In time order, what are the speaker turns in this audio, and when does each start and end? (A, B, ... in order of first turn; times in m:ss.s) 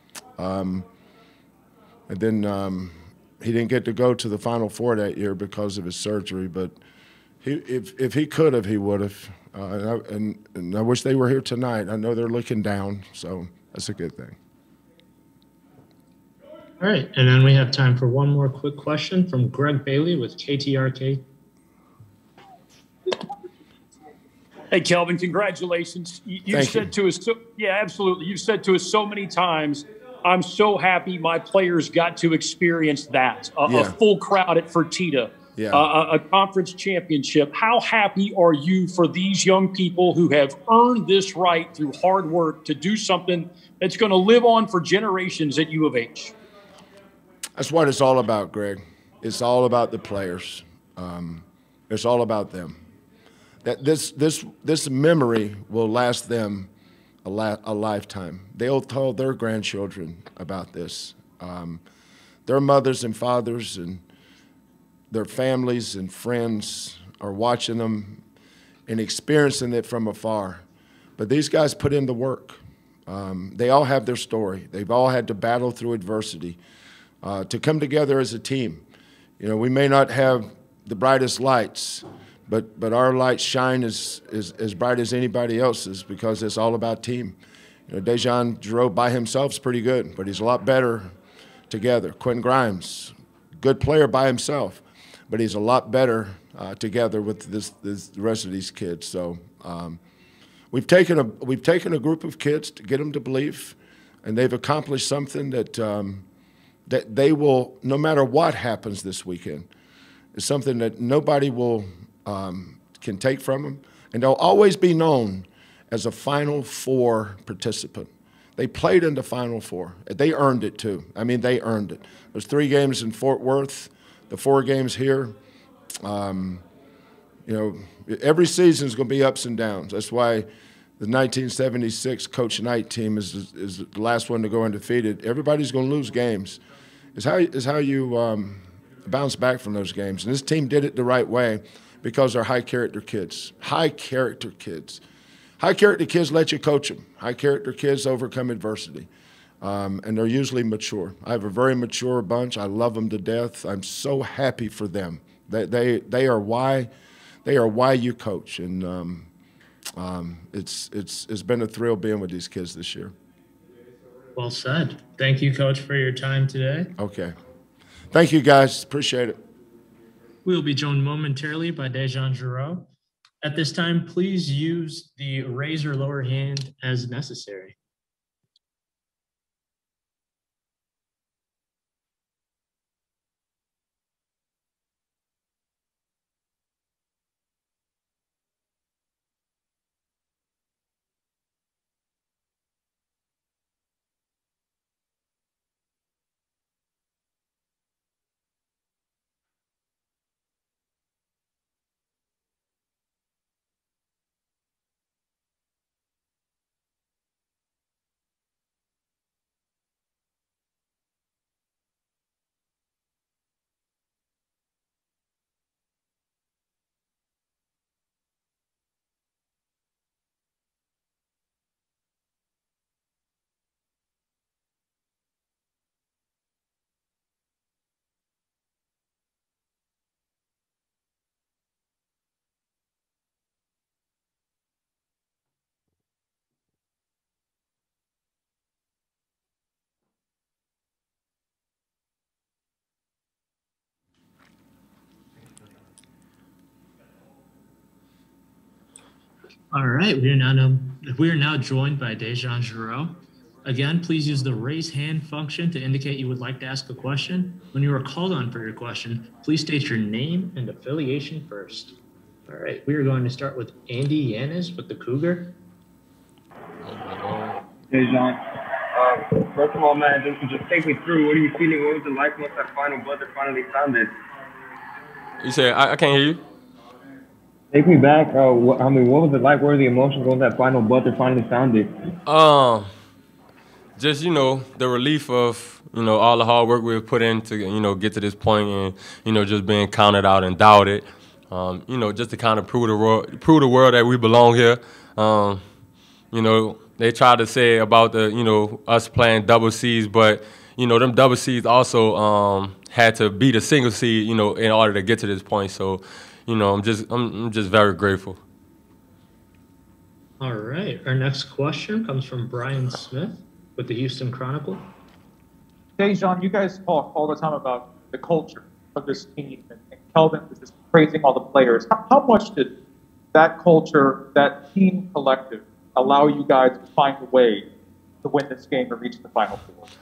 0:00.4-0:00.8 A
0:02.1-0:06.8 A
0:07.4-0:14.4 A
0:16.8-0:21.2 B
0:24.7-0:46.3 C
0:26.5-0:26.9 A
0:33.6-0:33.9 A
0:35.6-0:35.8 A
0:47.6-0:52.8 A
0:53.6-0:56.7 A
0:57.2-1:01.8 A
1:02.4-1:04.0 A
1:05.1-1:08.2 A
1:08.9-1:10.6 A
1:11.2-1:16.6 A
1:17.2-1:18.8 A
1:19.4-1:31.1 A
1:31.7-1:40.0 A
1:40.7-1:46.2 A
1:46.9-1:49.7 A
1:50.3-2:05.4 A
2:06.0-2:06.6 A
2:07.4-2:10.5 A
2:11.0-2:16.6 A
2:17.1-2:25.0 A
2:25.6-2:29.1 A
2:29.6-2:36.9 A
2:37.4-2:39.3 A
2:40.0-2:43.1 A
2:44.3-2:46.9 B
2:47.0-2:47.3 A
2:48.1-2:49.4 A
2:50.4-2:52.9 B
2:53.4-2:57.8 B
4:09.7-4:25.5 B
4:26.8-4:27.6 D
4:27.9-4:28.4 E
4:28.9-4:34.1 E
4:35.4-4:36.4 D
4:37.7-4:42.0 E
4:42.2-4:42.9 D
4:44.0-4:55.6 D
4:56.3-5:08.4 D
5:10.4-5:14.9 B
5:16.0-5:22.7 F
5:23.3-5:27.7 F
5:28.2-5:29.8 F